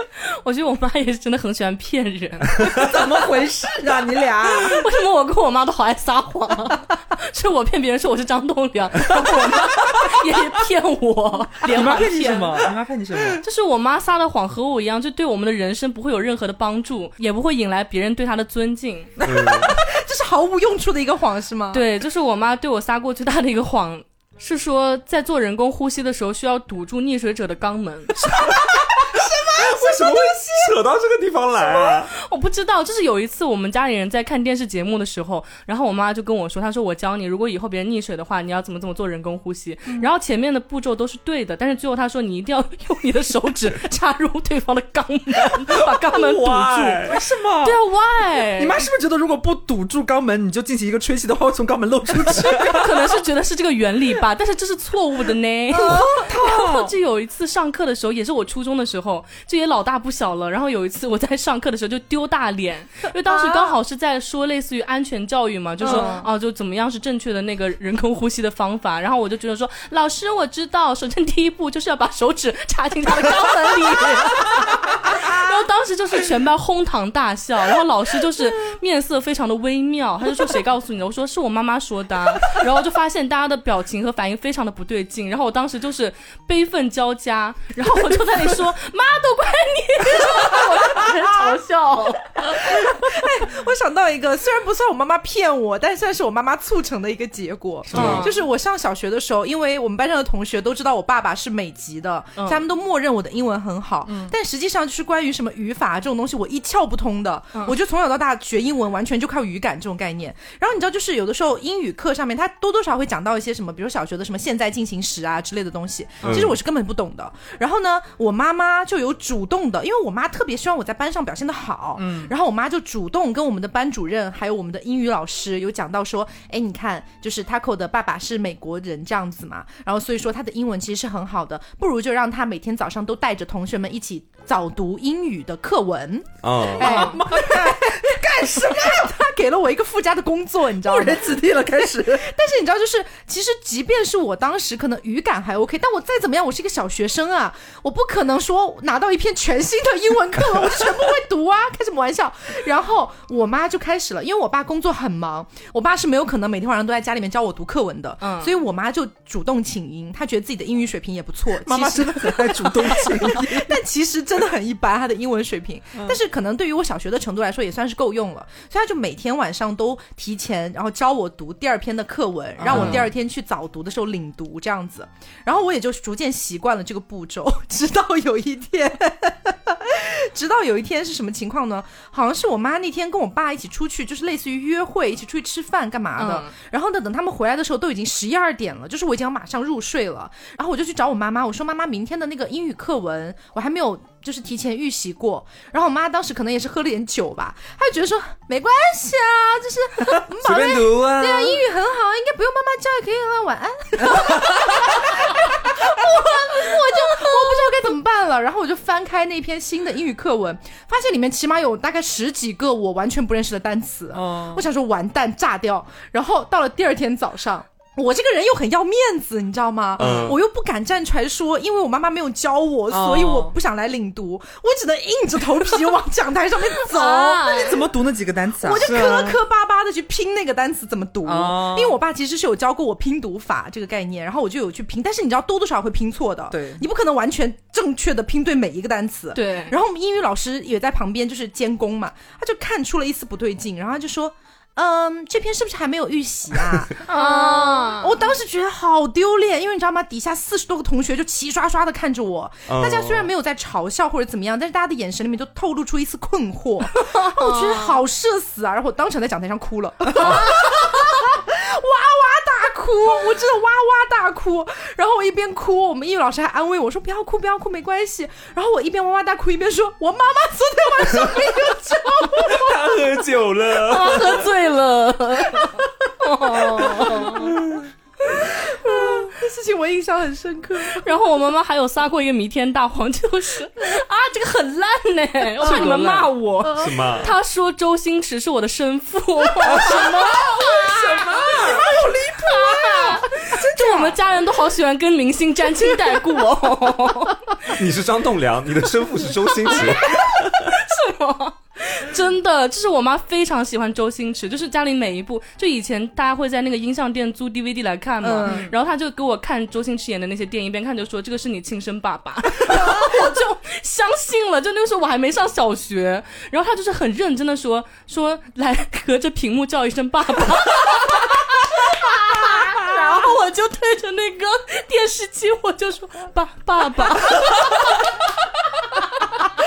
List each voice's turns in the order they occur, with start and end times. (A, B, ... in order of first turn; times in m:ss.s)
0:00.2-0:03.0 A
0:02.7-0:04.8 B
0:04.4-0:12.6 A
0:11.6-0:13.4 B
0:13.4-0:19.1 A
0:19.2-0:19.8 B
0:19.2-0:19.8 C
0:19.5-0:21.8 D
0:21.7-0:28.2 A
0:28.3-0:30.7 D
0:28.6-0:29.1 C
0:29.6-0:32.1 C
0:31.7-0:47.0 A
0:46.1-0:47.2 C
0:47.0-0:47.8 B
0:47.6-0:48.8 A
0:48.6-0:53.2 B
0:52.3-1:33.0 A
0:55.7-0:56.4 D
0:55.8-0:56.9 B
1:03.3-1:03.8 D
1:05.8-1:06.2 D
1:05.8-1:06.3 B
1:27.9-1:28.6 D
1:30.2-1:31.6 D
1:32.5-2:21.4 D
1:37.9-1:38.3 C
1:37.9-1:38.3 B
1:37.9-1:38.3 A
1:44.1-1:44.3 B
1:56.2-1:56.5 A
1:56.2-1:56.6 C
2:02.0-2:02.3 B
2:16.4-2:17.0 C
2:16.8-2:19.2 B
2:20.8-2:22.4 B
2:22.0-3:47.9 D
2:38.2-2:38.5 A
2:41.6-2:43.7 B
2:52.6-2:53.1 B
2:52.7-2:53.0 C
3:06.2-3:06.5 A
3:20.4-3:21.6 C
3:24.0-3:24.9 B
3:24.1-3:24.6 C
3:34.1-3:34.6 B
3:40.0-3:40.4 C
3:42.9-3:43.6 B
3:46.7-3:47.7 A
3:47.5-3:48.9 B
3:48.6-4:33.0 D
3:48.8-3:49.4 C
3:51.2-3:52.0 B
3:56.5-3:56.8 B
3:59.4-3:59.8 A
4:07.0-4:08.2 A
4:12.7-4:13.3 C
4:17.0-4:18.0 A
4:20.2-4:20.5 B
4:32.3-4:34.5 C
4:33.8-4:37.5 A
4:36.5-4:37.4 D
4:37.0-4:37.9 C
4:38.2-4:41.0 D
4:38.9-4:39.3 A
4:41.0-4:51.0 A
4:45.6-4:47.3 D
4:46.8-4:47.3 C
4:49.7-4:54.0 D
4:50.2-4:53.2 B
4:52.4-4:57.5 A
4:53.8-4:54.2 B
4:57.7-5:00.7 C
4:59.7-5:28.1 A
5:08.2-5:08.7 D
5:12.7-5:13.1 D